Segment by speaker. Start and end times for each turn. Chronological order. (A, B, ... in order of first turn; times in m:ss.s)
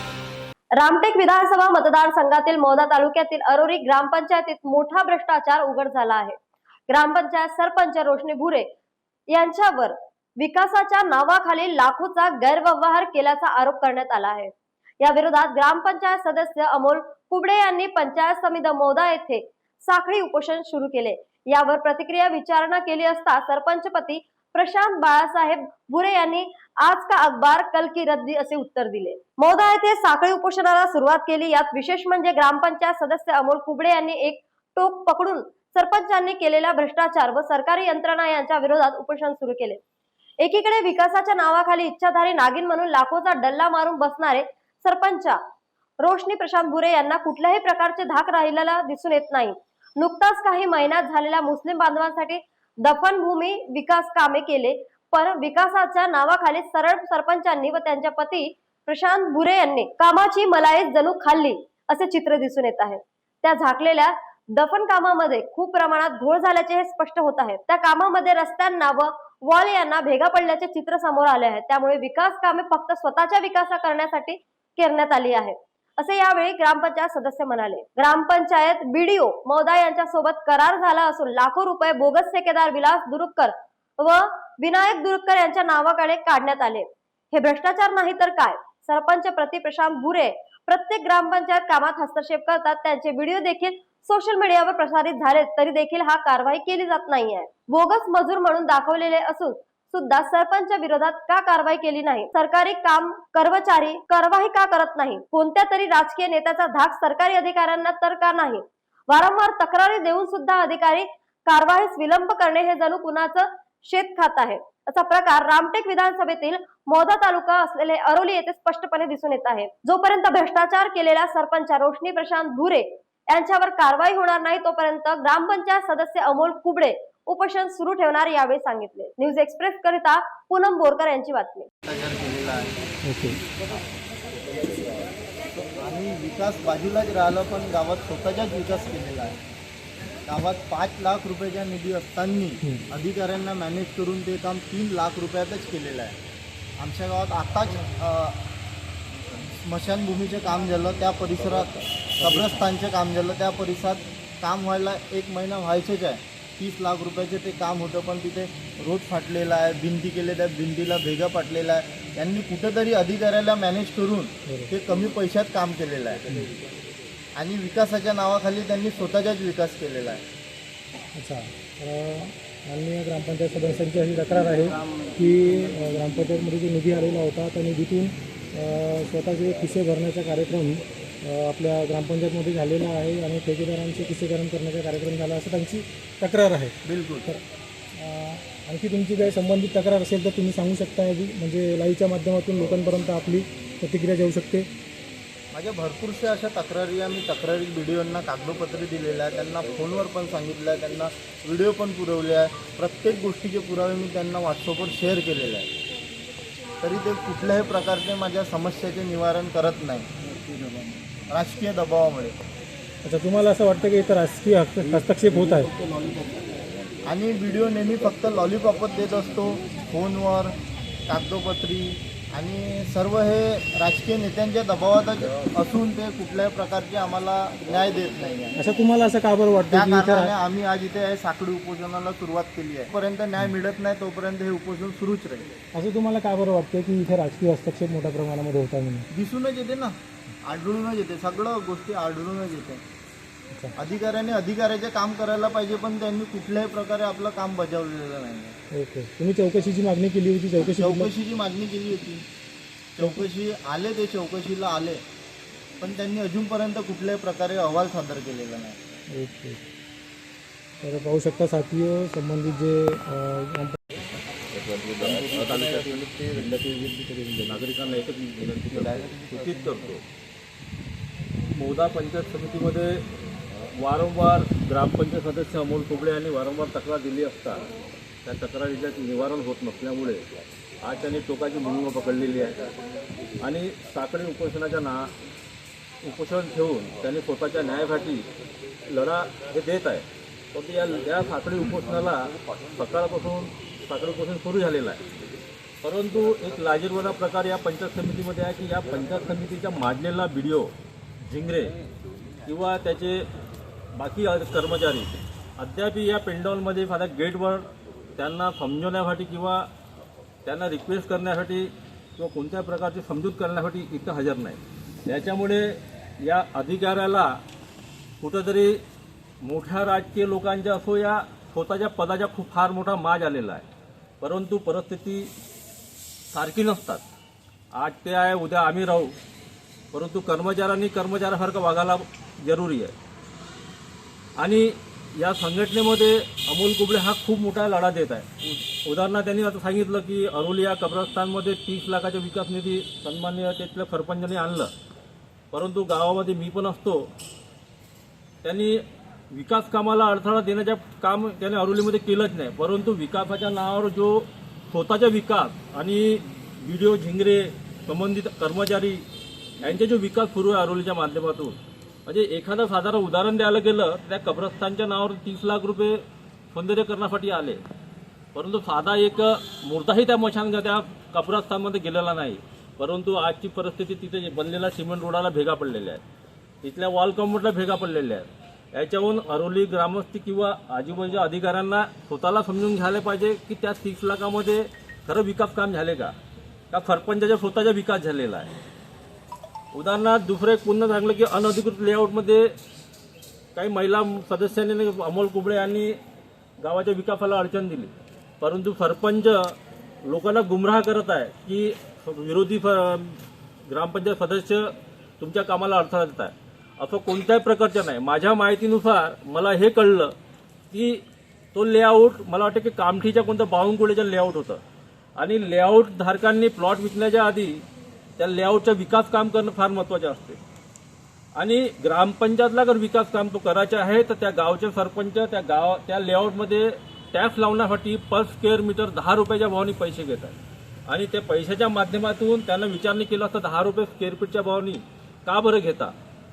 0:00.8-0:06.4 A
0:06.9-0:08.7 A
0:09.3-0:39.8 A
0:40.4-0:45.4 A
0:46.0-2:11.7 A
2:11.8-2:12.7 B
2:13.0-2:13.4 C
2:15.8-2:19.4 B
2:20.2-2:26.2 B
2:26.8-2:28.4 B
2:29.6-2:46.2 B
2:32.2-2:32.5 C
2:47.4-2:50.2 B
2:51.1-3:07.4 C
3:06.8-3:07.3 B
3:07.9-3:14.7 C
3:15.5-3:25.7 B
3:26.8-3:30.1 B
3:31.3-3:32.4 B
3:33.0-3:35.7 C
3:36.0-3:36.2 B
3:37.0-3:40.6 B
3:41.1-3:48.5 B
3:48.6-3:50.3 C
3:49.7-3:55.5 B
3:55.7-3:59.1 C
3:59.1-4:02.8 B
4:03.8-4:08.6 B
4:08.7-4:11.1 C
4:10.7-4:12.2 B
4:13.0-4:15.0 B
4:15.8-4:18.8 B
4:19.1-4:19.6 C
4:20.8-4:23.8 C
4:24.5-4:30.0 D
4:31.5-4:33.0 D
4:33.7-4:37.7 D
4:38.2-4:40.2 D
4:40.8-4:42.6 D
4:43.4-4:45.1 D
4:46.0-4:48.3 D
4:48.9-4:55.0 D
4:55.8-5:01.7 D
5:02.4-5:03.2 D
5:04.0-5:07.6 D
5:08.2-5:09.7 D
5:10.4-5:17.4 D
5:18.2-5:18.8 D
5:19.4-5:23.6 D
5:24.2-5:25.3 D
5:26.3-5:27.0 D
5:27.7-5:29.2 D
5:29.9-5:32.9 D
5:34.4-5:44.7 D
5:45.5-5:47.1 D
5:48.4-5:59.0 D
5:59.6-6:06.0 D
6:06.5-6:07.6 D
6:08.3-6:16.0 D
6:16.6-6:26.1 D
6:26.7-6:28.5 D
6:29.7-6:32.5 D
6:33.5-6:36.0 D
6:36.6-6:50.1 D
6:50.7-6:51.0 D
6:51.5-6:54.6 D
6:55.2-6:57.6 D
6:58.2-7:00.4 D
7:01.4-7:15.9 D